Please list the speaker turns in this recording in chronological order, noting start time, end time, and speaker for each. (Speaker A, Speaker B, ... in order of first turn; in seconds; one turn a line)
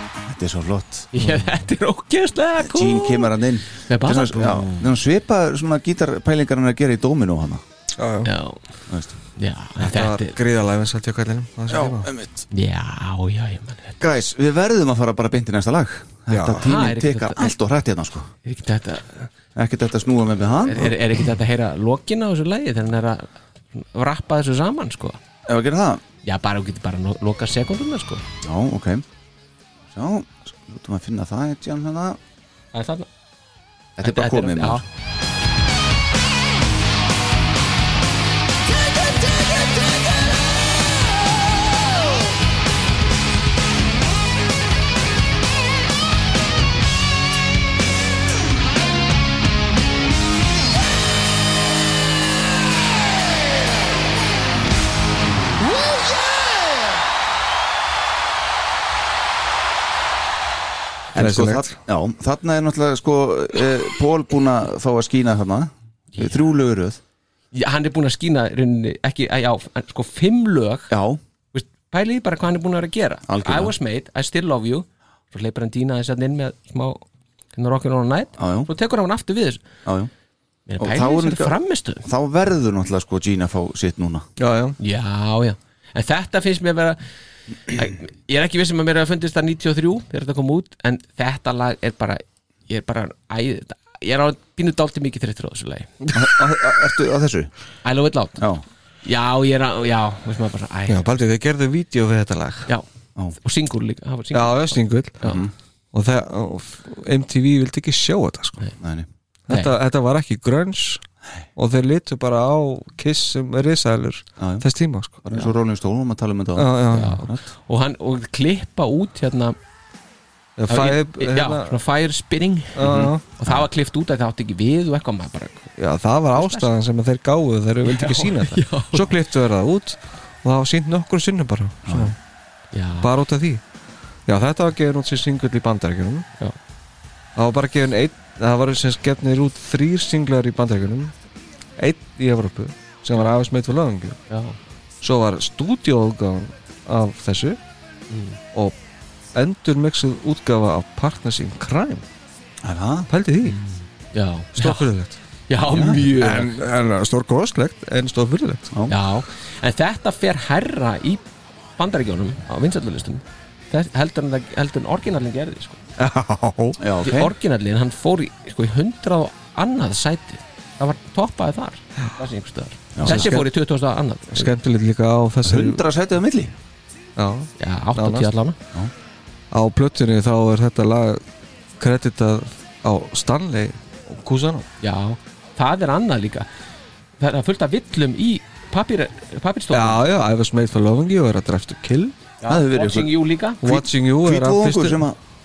Speaker A: 0.3-1.1
Speaker B: 1.1-3.3
Speaker A: 2.6-7.6
Speaker B: 3.9-4.7
Speaker C: 8.0-8.3
Speaker B: 8.2-8.6
Speaker B: 9.4-10.4
Speaker C: 9.8-12.1
Speaker A: 11.7-12.5
Speaker B: 12.5-14.1
Speaker A: 14.0-18.3
Speaker C: 16.3-16.7
Speaker B: 16.6-17.5
Speaker B: 18.4-19.3
Speaker A: 19.6-20.9
Speaker B: 20.6-25.2
Speaker A: 25.5-26.0
Speaker B: 26.2-28.2
Speaker A: 28.4-29.1
Speaker A: 29.9-32.2
Speaker B: 32.7-33.1
Speaker A: 34.0-34.8
Speaker B: 34.0-34.8
Speaker D: 38.6-42.4
Speaker D: 55.6-57.0
Speaker A: 61.1-67.0
Speaker C: 61.1-61.8
Speaker B: 67.5-70.9
Speaker A: 70.9-71.2
Speaker B: 71.5-77.0
Speaker A: 73.3-73.7
Speaker B: 77.5-79.6
Speaker A: 78.4-78.7
Speaker A: 79.9-80.1
Speaker B: 80.7-82.0
Speaker A: 80.8-84.3
Speaker C: 84.4-84.8
Speaker B: 84.8-87.0
Speaker B: 87.7-95.9
Speaker A: 96.1-97.5
Speaker B: 97.8-98.4
Speaker A: 98.4-98.6
Speaker B: 99.0-101.0
Speaker C: 100.9-102.7
Speaker B: 103.4-105.5
Speaker C: 104.3-105.2
Speaker A: 105.2-105.5
Speaker C: 105.9-108.6
Speaker A: 108.8-109.1
Speaker C: 109.5-111.0
Speaker C: 111.6-115.2
Speaker A: 114.4-114.7
Speaker A: 115.2-117.5
Speaker C: 116.6-117.3
Speaker B: 116.9-119.6
Speaker C: 120.6-121.8
Speaker B: 120.7-122.8
Speaker C: 122.8-123.2
Speaker A: 122.8-123.7
Speaker B: 123.4-125.7
Speaker C: 125.8-132.2
Speaker B: 126.4-126.7
Speaker B: 127.8-129.1
Speaker A: 131.9-132.1
Speaker B: 132.7-133.1
Speaker C: 133.0-133.6
Speaker C: 134.3-136.3
Speaker C: 137.4-141.1
Speaker C: 141.8-144.2
Speaker B: 144.3-144.6
Speaker C: 145.0-147.6
Speaker B: 148.1-148.4
Speaker C: 149.3-152.1
Speaker A: 152.6-153.1
Speaker C: 153.1-153.6
Speaker B: 153.5-154.9
Speaker C: 154.6-155.2
Speaker B: 155.5-156.6
Speaker A: 155.7-156.0
Speaker C: 156.0-158.7
Speaker B: 158.9-161.2
Speaker B: 161.8-165.8
Speaker C: 166.0-166.8
Speaker A: 166.8-167.3
Speaker B: 167.0-174.5
Speaker A: 172.9-173.4
Speaker C: 173.0-173.5
Speaker C: 174.3-175.8
Speaker A: 175.4-176.5
Speaker C: 177.2-178.3
Speaker B: 177.6-178.6
Speaker C: 179.5-181.2
Speaker C: 181.8-184.7
Speaker B: 184.8-186.5
Speaker B: 187.2-190.0
Speaker C: 189.7-192.1
Speaker B: 192.4-193.6
Speaker A: 192.5-195.2
Speaker C: 193.6-195.0